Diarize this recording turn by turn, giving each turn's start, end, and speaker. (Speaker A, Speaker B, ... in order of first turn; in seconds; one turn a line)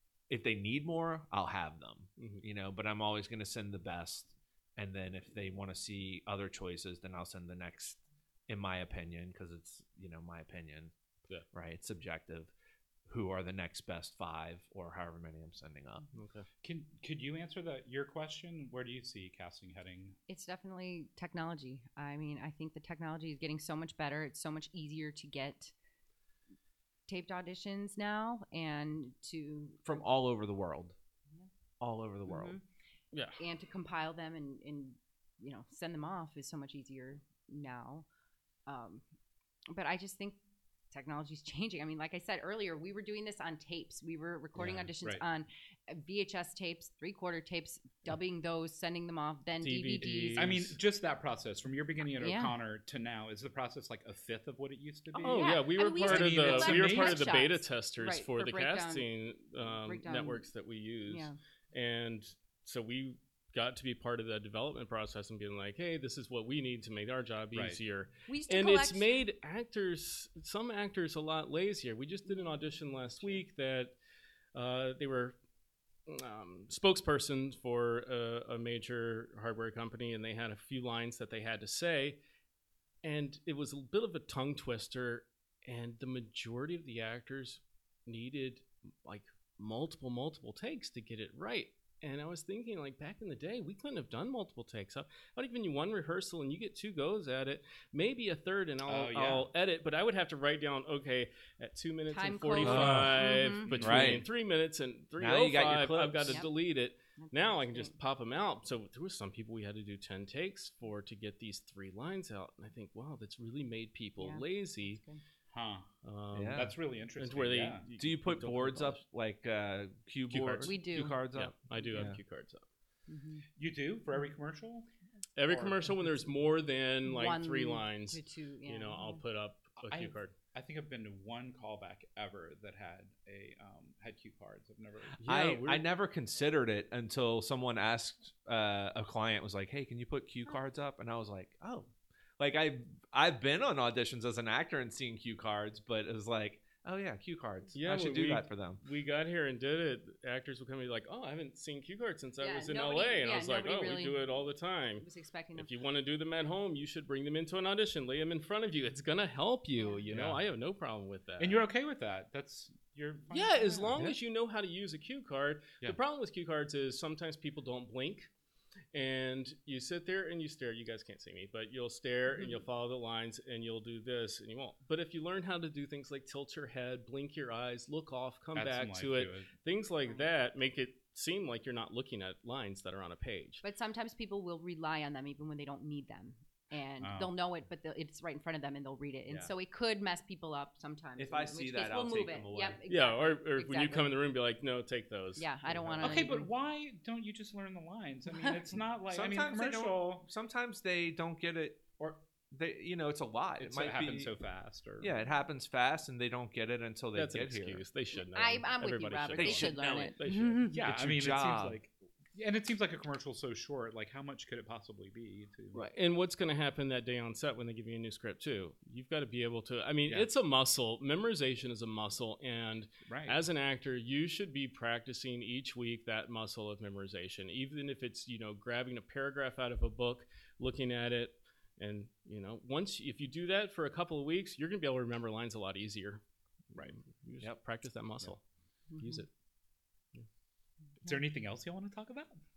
Speaker A: 0.3-10.9
Speaker B: 2.2-2.4
Speaker A: 11.5-12.5
Speaker A: 13.1-16.1
Speaker B: 16.1-16.5
Speaker C: 16.6-20.2
Speaker D: 20.3-25.7
Speaker D: 27.1-29.8
Speaker A: 29.8-30.9
Speaker A: 31.8-32.5
Speaker D: 32.2-32.6
Speaker B: 33.1-33.4
Speaker D: 33.4-38.0
Speaker D: 38.6-39.0
Speaker D: 39.7-40.4
Speaker D: 40.9-50.6
Speaker B: 49.6-50.7
Speaker C: 50.4-57.3
Speaker D: 52.1-52.5
Speaker D: 55.1-59.1
Speaker B: 55.2-73.9
Speaker D: 59.6-60.5
Speaker D: 61.1-61.4
Speaker C: 67.5-67.8
Speaker D: 68.3-69.2
Speaker D: 72.3-73.4
Speaker B: 74.5-75.4
Speaker B: 76.1-82.2
Speaker B: 83.0-115.0
Speaker C: 98.9-99.5
Speaker D: 102.1-103.9
Speaker A: 102.6-103.2
Speaker C: 103.7-104.2
Speaker A: 103.8-104.2
Speaker A: 105.2-106.4
Speaker D: 106.2-106.5
Speaker D: 107.2-107.9
Speaker D: 114.2-115.2
Speaker C: 115.5-115.9
Speaker B: 116.0-119.0
Speaker A: 116.3-116.7
Speaker C: 116.5-117.8
Speaker A: 118.0-122.2
Speaker B: 120.3-120.8
Speaker D: 120.6-121.2
Speaker B: 121.3-122.6
Speaker D: 121.8-122.1
Speaker D: 123.1-123.5
Speaker C: 123.6-124.9
Speaker B: 125.3-130.3
Speaker C: 125.4-126.1
Speaker D: 127.0-129.2
Speaker C: 129.8-135.2
Speaker B: 135.2-135.8
Speaker A: 135.2-148.8
Speaker B: 147.7-161.6
Speaker D: 152.4-154.3
Speaker D: 155.0-155.7
Speaker D: 159.8-160.0
Speaker C: 161.4-164.1
Speaker B: 163.3-168.3
Speaker B: 168.9-183.6
Speaker D: 172.3-172.7
Speaker C: 178.5-179.5
Speaker D: 183.6-194.1
Speaker C: 187.0-187.3
Speaker A: 189.3-189.5
Speaker A: 191.2-192.8
Speaker B: 192.9-196.3
Speaker D: 195.4-196.5
Speaker C: 196.0-200.3
Speaker D: 198.3-198.8
Speaker A: 199.1-202.0
Speaker A: 202.5-204.3
Speaker C: 203.6-205.1
Speaker A: 205.0-207.8
Speaker B: 207.1-210.7
Speaker D: 208.1-210.9
Speaker A: 209.3-210.1
Speaker C: 210.7-215.8
Speaker A: 210.8-211.8
Speaker B: 215.9-236.2
Speaker C: 223.1-223.4
Speaker B: 236.8-238.4
Speaker D: 238.9-239.2
Speaker B: 239.0-239.3
Speaker C: 241.0-242.4